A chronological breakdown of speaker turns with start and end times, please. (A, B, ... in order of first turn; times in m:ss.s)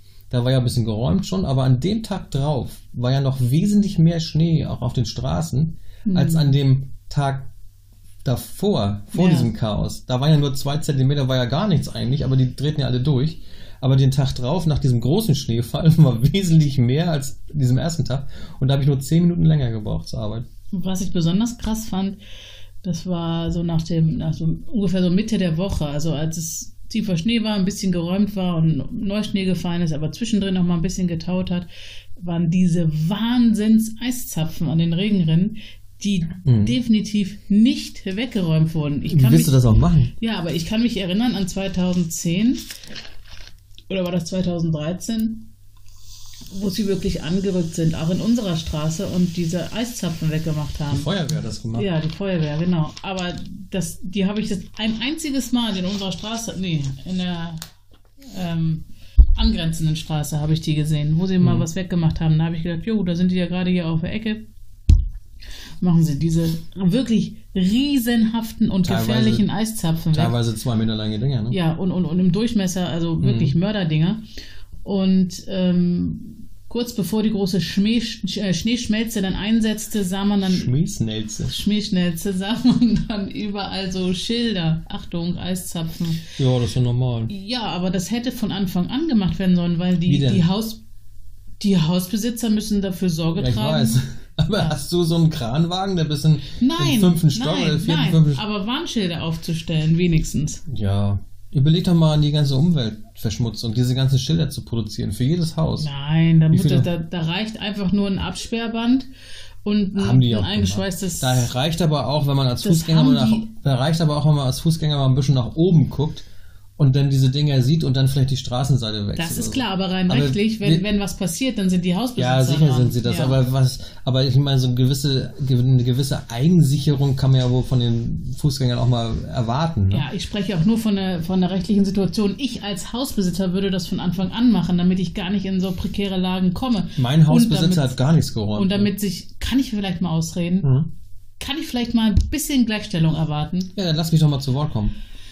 0:00.3-0:07.5 A
0:06.0-0:06.5 B
0:08.2-0:20.5 A
0:09.1-0:09.5 B
0:20.7-0:22.2 B
0:22.8-0:42.7 B
0:36.4-0:36.8 A
0:39.1-0:40.1 A
0:43.9-0:45.5 B
0:46.5-0:51.1 B
0:50.9-0:51.9 A
0:51.7-0:57.6 B
0:58.3-1:04.5 B
1:01.4-1:01.7 A
1:05.8-1:10.4 B
1:08.8-1:09.5 A
1:10.1-1:11.6 A
1:11.5-1:14.2 B
1:13.2-1:13.6 A
1:14.8-1:20.7 B
1:20.4-1:21.6 A
1:21.5-1:26.3 B
1:26.4-1:27.3 A
1:27.3-1:30.8 B
1:30.1-1:30.5 A
1:31.6-1:34.0 B
1:33.4-1:38.4 A
1:36.6-1:40.6 B
1:40.7-1:45.9 A
1:45.8-1:49.1 B
1:46.5-1:46.9 A
1:49.6-1:51.5 B
1:50.0-1:56.3 A
1:52.6-1:53.5 B
1:56.8-2:00.9 A
1:59.2-2:03.4 B
2:02.2-2:10.1 A
2:09.9-2:18.0 B
2:17.0-2:18.9 A
2:18.5-2:20.7 B
2:20.6-2:20.9 A
2:21.4-2:23.7 B
2:23.8-2:25.0 A